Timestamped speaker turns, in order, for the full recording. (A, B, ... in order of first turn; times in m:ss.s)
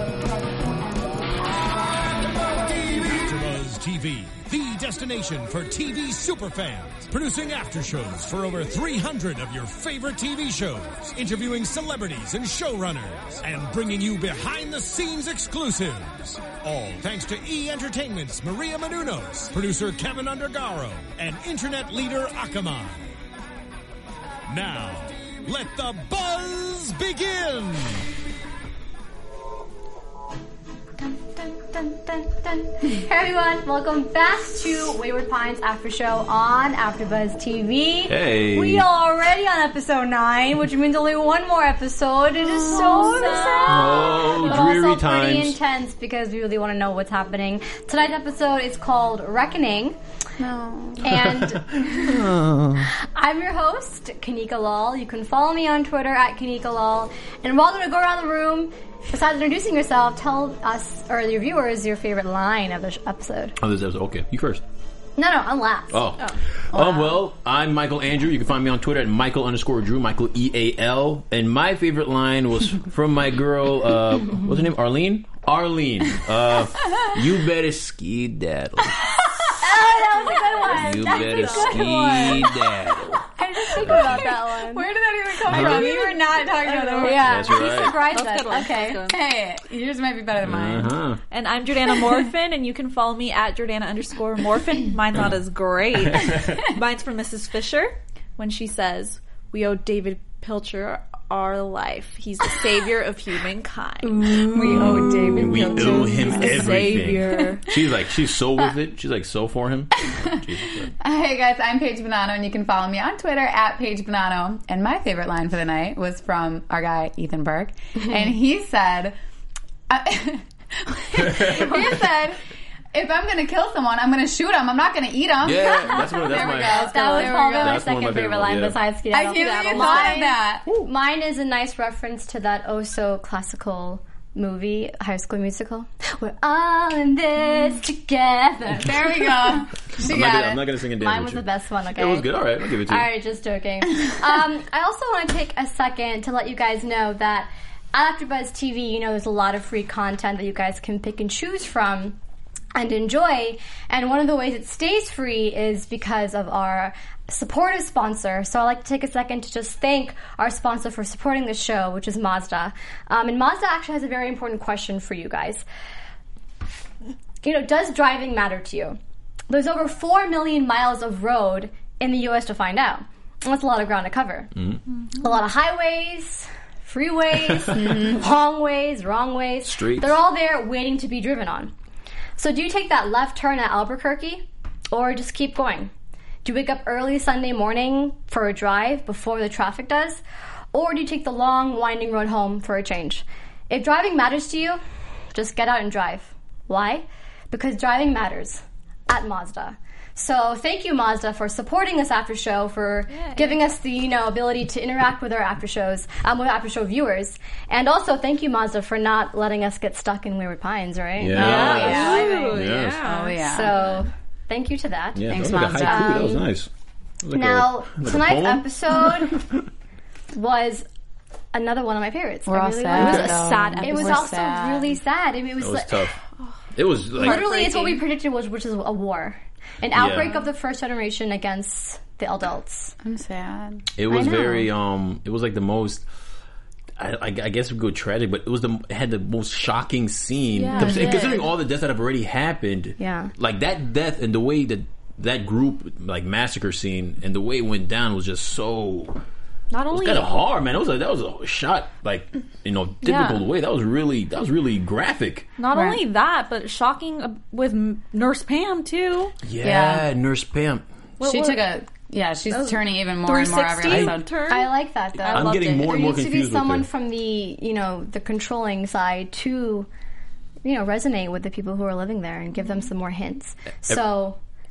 0:02.6-0:23.1 A
0:24.5-0:28.1 A
0:31.0-0:50.0 B
0:38.1-0:38.9 C
0:42.6-0:44.6 D
0:42.6-0:43.4 E
0:43.7-0:45.6 C
0:50.4-0:51.0 E
0:51.0-0:52.2 B
0:51.1-0:52.9 C
0:52.8-1:03.6 B
1:03.6-1:04.6 C
1:05.2-1:06.0 B
1:05.9-1:19.1 C
1:06.7-1:07.1 E
1:19.6-1:22.5 B
1:20.7-1:23.2 C
1:21.0-1:21.9 D
1:23.4-1:24.9 B
1:23.7-1:24.3 C
1:23.8-1:27.5 E
1:25.5-1:26.1 C
1:25.5-1:26.1 B
1:25.6-1:27.1 D
1:26.6-1:29.0 B
1:27.0-1:28.0 C
1:27.8-1:29.2 D
1:29.0-1:30.9 E
1:30.4-1:31.2 C
1:31.3-1:44.8 D
1:36.0-1:36.6 C
1:44.0-1:47.0 E
1:44.6-1:50.9 C
1:44.7-1:46.1 B
1:45.6-1:47.7 D
1:51.0-1:59.2 E
1:59.9-2:02.4 E
2:01.1-2:01.9 C
2:01.8-2:02.2 B
2:02.9-2:07.8 E
2:05.4-2:08.8 C
2:05.9-2:19.6 B
2:06.3-2:07.4 D
2:09.1-2:10.7 E
2:09.7-2:10.2 D
2:18.8-2:20.6 E
2:20.0-2:23.1 C
2:21.0-2:32.2 B
2:32.7-2:45.6 B
2:47.4-2:49.0 B
2:49.5-2:54.5 B
2:55.1-3:01.7 B
2:57.5-2:57.8 C
2:57.7-2:58.2 E
2:59.6-3:00.2 C
3:02.4-3:05.9 B
3:06.4-3:10.2 B
3:10.7-3:14.8 B
3:15.3-3:32.6 B
3:23.1-3:23.6 D
3:31.2-3:33.1 C
3:31.3-3:33.9 D
3:31.3-3:32.4 E
3:33.0-3:33.7 E
3:33.4-3:36.5 B
3:35.1-3:36.7 C
3:35.3-3:36.3 E
3:37.2-3:39.6 C
3:37.3-3:39.4 B
3:40.3-3:40.8 B
3:41.5-3:46.2 B
3:42.5-3:44.9 E
3:42.9-3:44.4 D
3:43.0-3:43.4 C
3:45.6-3:46.2 C
3:46.7-3:47.4 C
3:47.1-3:48.0 D
3:47.1-3:52.9 B
3:49.9-3:50.4 C
3:53.0-3:53.8 E
3:54.0-3:56.0 C
3:54.1-3:54.7 B
3:57.0-4:09.2 C
4:00.5-4:01.3 D
4:00.7-4:01.5 B
4:03.0-4:03.3 B
4:09.7-4:10.4 D
4:09.9-4:15.5 C
4:13.0-4:13.5 D
4:15.6-4:19.3 D
4:15.7-4:16.0 E
4:19.4-4:20.8 C
4:19.6-4:20.0 E
4:21.2-4:21.7 D
4:21.2-4:24.3 E
4:22.5-4:24.7 D
4:23.8-4:24.2 C
4:24.5-4:29.9 B
4:25.2-4:26.8 C
4:30.6-4:34.4 B